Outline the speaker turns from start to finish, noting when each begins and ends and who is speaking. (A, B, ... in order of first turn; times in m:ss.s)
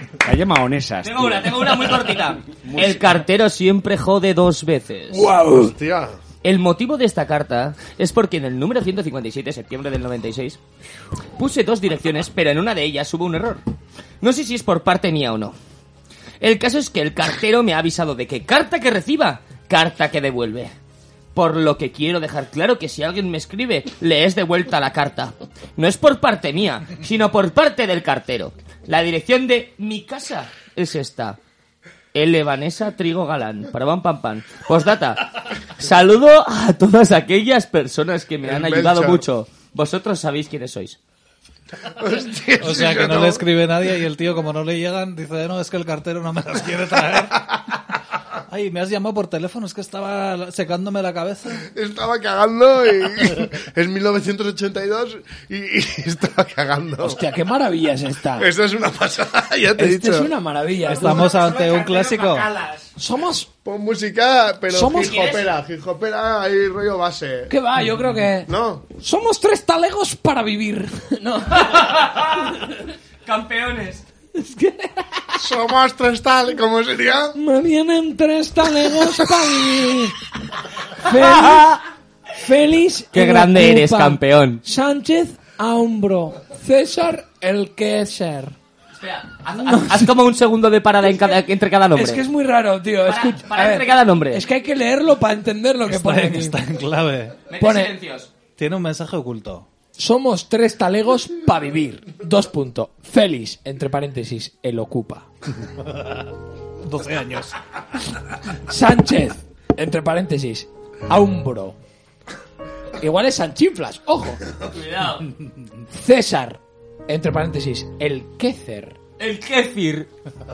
0:00.2-0:01.7 A
0:01.0-0:05.3 B
0:02.5-0:03.1 A
0:05.1-0:05.7 C
0:05.5-0:06.2 D
0:06.4-0:10.6 B
0:11.4-0:13.6 B
0:14.2-0:15.5 B
0:16.4-0:20.7 B
0:21.3-0:31.4 B
0:32.1-0:35.2 B
0:35.8-0:41.0 B
0:38.4-0:39.2 D
0:42.0-0:43.4 D
0:42.6-0:47.4 E
0:48.5-0:51.6 E
0:51.7-0:57.2 D
0:57.0-0:58.5 C
0:58.4-1:00.3 D
0:59.8-1:01.5 C
1:00.9-1:02.5 E
1:03.0-1:03.5 C
1:03.6-1:07.5 D
1:04.7-1:05.5 C
1:07.5-1:11.9 C
1:08.5-1:08.8 D
1:11.6-1:12.6 B
1:13.2-1:14.0 B
1:14.4-1:15.4 C
1:15.4-1:17.3 D
1:17.4-1:20.2 C
1:21.0-1:21.8 C
1:21.4-1:21.7 B
1:22.4-1:28.5 C
1:23.1-1:24.6 B
1:29.0-1:32.2 B
1:29.6-1:30.1 C
1:31.9-1:36.6 C
1:33.0-1:34.4 B
1:35.8-1:37.4 E
1:37.5-1:38.3 B
1:37.6-1:37.9 C
1:38.6-1:39.6 E
1:40.0-1:45.3 C
1:46.8-1:47.5 E
1:48.7-1:51.8 C
1:53.0-1:54.4 C
1:54.7-1:55.3 B
1:55.9-1:59.0 C
1:59.2-2:00.1 B